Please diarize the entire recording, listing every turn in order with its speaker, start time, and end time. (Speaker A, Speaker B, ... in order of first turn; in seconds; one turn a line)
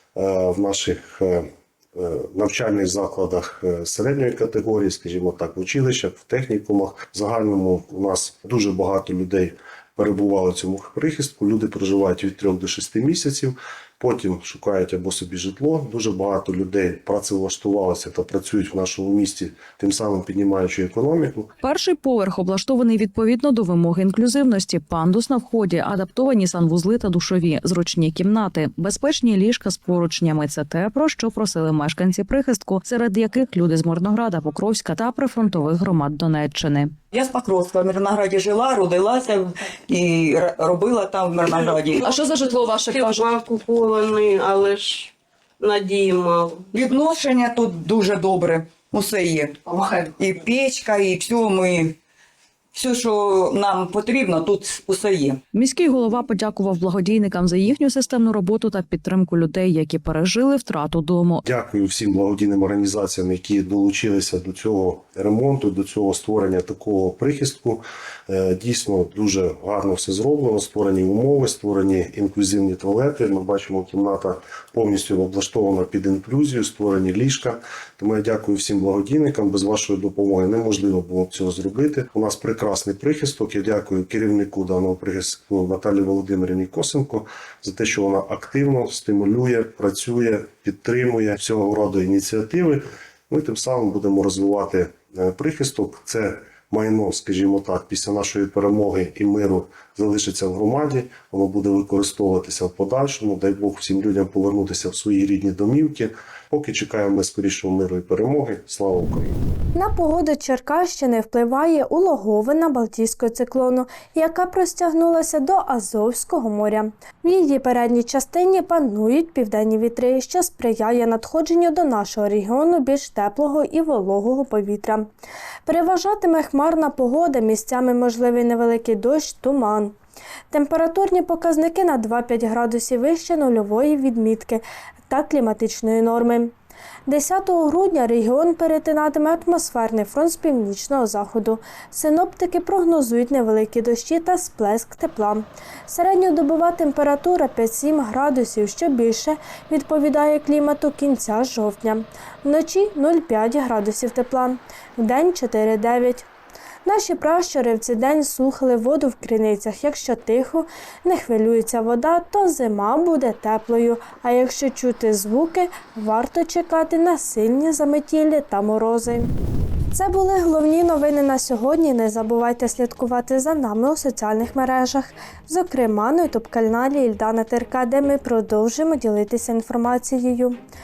Speaker A: 0.2-21.5
Speaker B: 21.6-37.0
Speaker C: 37.1-42.1
Speaker B: 42.1-43.3
Speaker D: 42.1-46.7
Speaker C: 46.7-52.0
Speaker C: 52.8-55.4
Speaker B: 55.5-61.4
Speaker A: 61.5-109.4
Speaker E: 109.8-125.1
Speaker E: 125.7-129.9
Speaker E: 130.5-136.5
Speaker E: 137.1-156.3
Speaker E: 156.8-169.3
Speaker E: 169.9-180.6